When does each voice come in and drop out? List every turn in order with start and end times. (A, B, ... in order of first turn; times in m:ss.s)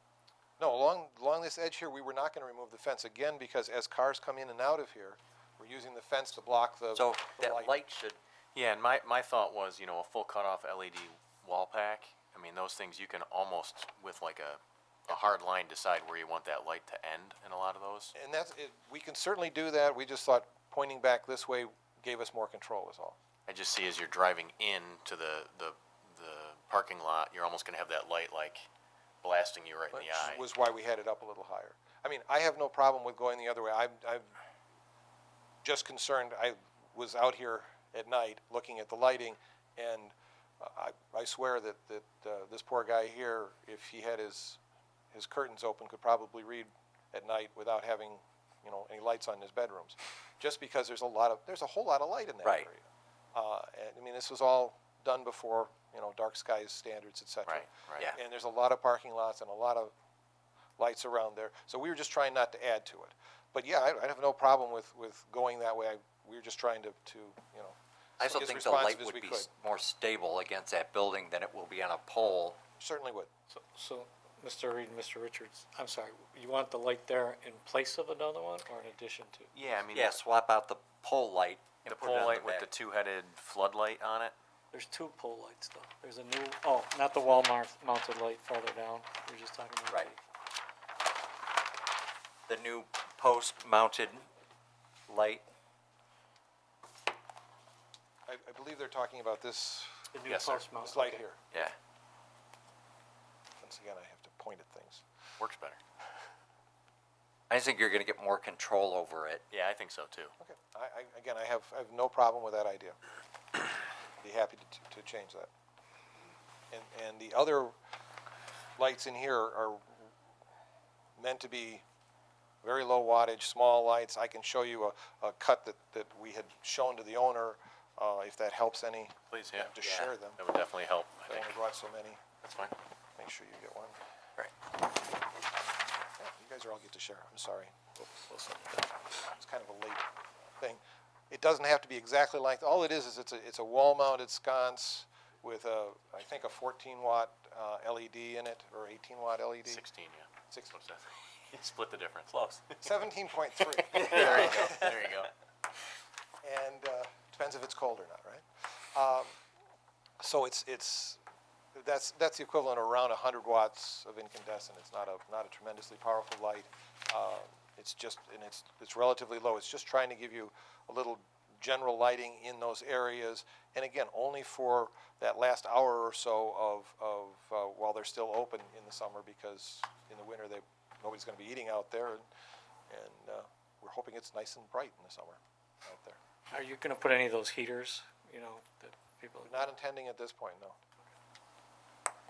0:00.6-0:07.7 A
0:06.9-0:08.2 B
0:08.5-0:18.1 C
0:18.1-0:23.2 A
0:23.5-0:28.7 C
0:29.2-0:30.4 C
0:29.9-0:34.4 A
0:35.6-0:44.6 A
0:45.1-0:59.9 A
0:57.5-0:58.1 C
1:00.8-1:09.5 A
1:08.2-1:12.6 B
1:12.8-1:13.3 A
1:13.5-1:19.5 D
1:19.5-1:20.2 C
1:19.9-1:22.7 B
1:21.8-1:24.3 C
1:24.7-1:30.2 D
1:32.5-1:34.3 B
1:35.1-1:35.4 B
1:38.3-1:40.0 A
1:40.1-1:41.2 D
1:40.2-1:40.7 C
1:40.8-1:41.4 A
1:43.6-1:45.0 A
1:45.4-1:45.8 C
1:47.5-1:49.4 B
1:49.5-1:50.3 C
1:50.4-1:53.0 A
1:54.2-1:55.5 A
1:56.7-1:57.7 A
1:58.8-2:00.1 A
2:01.2-2:01.8 A
2:02.6-2:10.4 A
2:09.3-2:09.7 C
2:09.8-2:10.1 B
2:10.4-2:11.5 C
2:11.3-2:12.2 A
2:12.4-2:12.7 C
2:13.2-2:14.0 A
2:16.2-2:20.0 A
2:20.6-2:29.8 A
2:29.6-2:32.9 C
2:30.5-2:30.7 A
2:32.8-2:34.9 A
2:33.9-2:35.3 C
2:36.4-2:39.3 A
2:40.2-2:41.2 A
2:41.7-3:02.3 A
3:02.9-3:06.2 A
3:06.5-3:09.7 D
3:09.4-3:10.8 A